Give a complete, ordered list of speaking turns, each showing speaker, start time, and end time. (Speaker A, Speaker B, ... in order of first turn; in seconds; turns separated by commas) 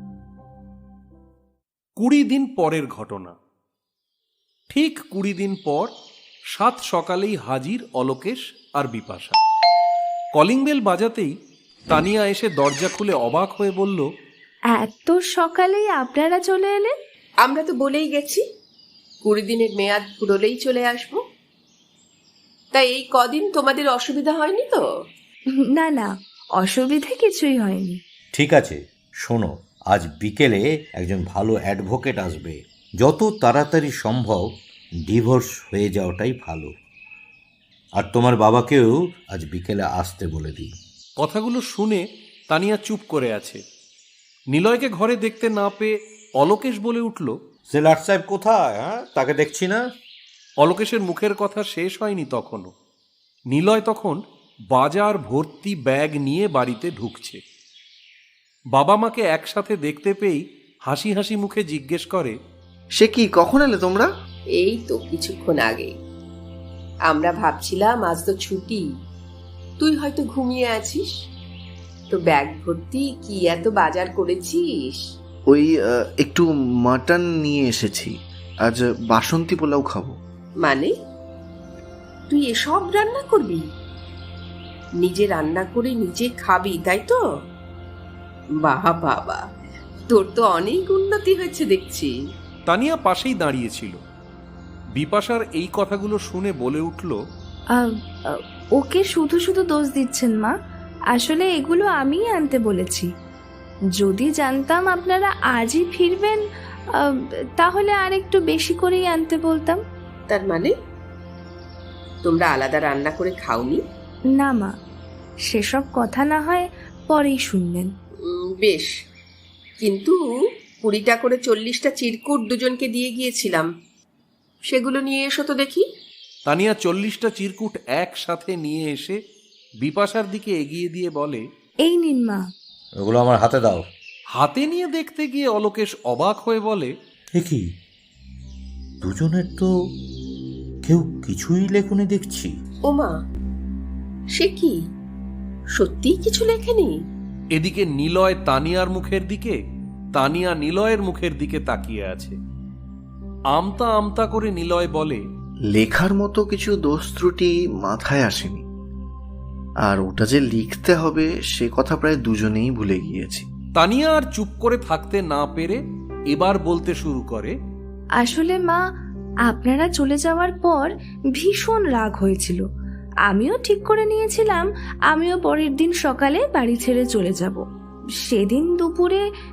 Speaker A: 2.0-3.4, Speaker A: 4.7-5.9, Speaker A: 6.5-9.4, Speaker A: 10.3-11.3, Speaker A: 11.9-14.1, Speaker B: 14.7-16.9, Speaker C: 17.4-18.4, Speaker C: 19.2-21.2, Speaker C: 22.7-24.8, Speaker B: 25.7-28.0, Speaker D: 28.3-34.4, Speaker D: 35.1-36.7, Speaker D: 38.0-40.7, Speaker A: 41.2-43.6, Speaker A: 44.5-47.3, Speaker D: 47.7-49.8, Speaker A: 50.6-52.7, Speaker A: 53.5-54.2, Speaker A: 54.7-57.4, Speaker A: 58.7-62.3, Speaker E: 63.0-64.1, Speaker C: 64.5-65.9, Speaker C: 67.0-68.8, Speaker C: 69.8-71.1, Speaker C: 72.1-75.0, Speaker E: 75.5-78.1, Speaker E: 78.6-80.2, Speaker C: 80.6-80.9, Speaker C: 82.3-83.6, Speaker C: 85.0-87.2, Speaker C: 88.6-89.4, Speaker C: 90.1-92.1, Speaker A: 92.7-94.0, Speaker A: 95.0-97.2, Speaker B: 97.8-100.5, Speaker B: 101.1-103.1, Speaker B: 104.0-106.4, Speaker B: 107.0-109.8, Speaker C: 110.3-110.7, Speaker C: 112.2-113.8, Speaker B: 114.4-114.7, Speaker B: 115.5-117.9, Speaker C: 118.3-118.9, Speaker C: 119.8-120.2, Speaker C: 120.8-123.7, Speaker C: 124.7-125.8, Speaker A: 126.5-129.2, Speaker A: 129.8-131.4, Speaker B: 131.8-132.4, Speaker D: 133.0-133.8, Speaker A: 134.3-136.9, Speaker D: 137.3-137.7, Speaker D: 139.0-139.7, Speaker D: 140.8-142.5, Speaker C: 142.8-143.2, Speaker C: 144.3-144.8, Speaker C: 145.7-146.9, Speaker A: 147.5-149.6, Speaker A: 150.1-152.3, Speaker A: 153.5-155.2, Speaker E: 155.7-158.6, Speaker E: 159.8-163.4, Speaker A: 163.8-165.8, Speaker A: 166.3-167.5, Speaker B: 168.2-168.8, Speaker B: 169.5-172.6, Speaker B: 173.3-177.6, Speaker B: 178.2-179.2